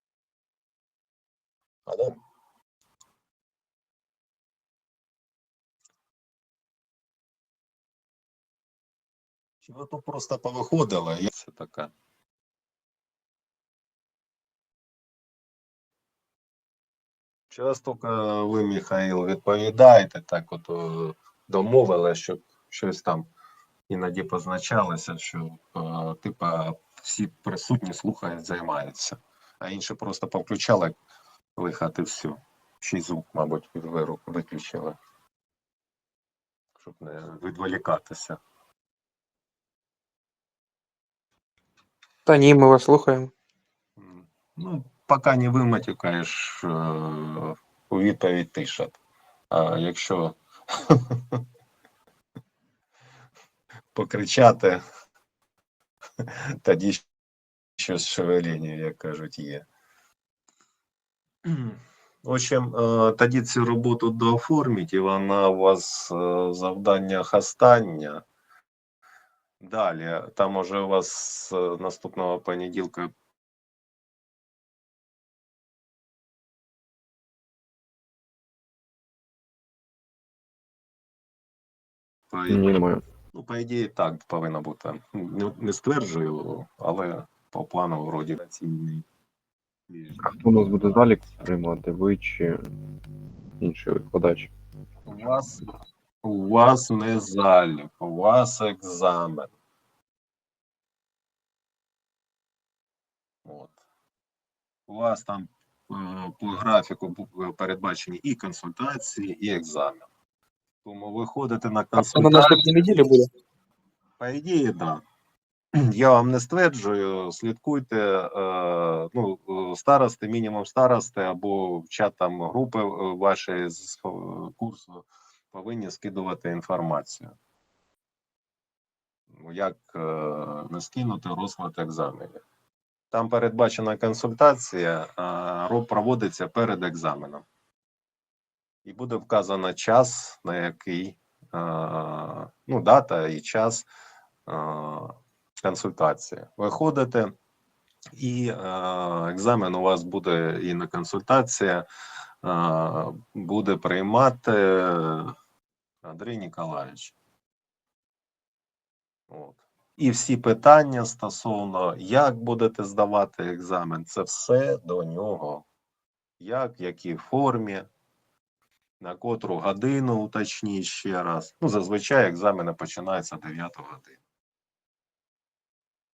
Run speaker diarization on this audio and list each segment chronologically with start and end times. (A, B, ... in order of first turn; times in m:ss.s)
0:01.8-0:02.2 A
0:09.6-0:11.9 A
0:17.5-0:23.3 A
0:23.9-0:30.9 A
0:31.6-0:35.0 A
0:36.8-0:38.4 A
0:42.2-0:43.3 B
0:44.0-0:49.0 A
0:49.5-0:51.4 A
0:53.9-0:54.8 A
0:56.2-0:57.0 A
0:57.8-0:59.6 A
1:01.4-1:08.2 A
1:09.6-1:13.1 A
1:22.3-1:29.0 A
1:22.5-1:23.0 C
1:29.9-1:31.3 A
1:30.2-1:32.6 C
1:33.6-1:34.5 C
1:35.0-1:35.6 A
1:36.2-1:39.5 A
1:43.4-1:43.8 A
1:44.9-1:50.1 A
1:50.8-1:53.0 A
1:52.0-1:53.3 B
1:54.2-1:55.0 A
1:55.7-2:07.3 A
2:09.3-2:12.4 A
2:13.1-2:17.4 A
2:18.8-2:23.8 A
2:24.5-2:27.3 A
2:28.1-2:31.8 A
2:32.4-2:35.3 A
2:36.0-2:37.2 A
2:39.3-2:45.6 A
2:46.4-2:47.9 A
2:49.0-2:54.2 A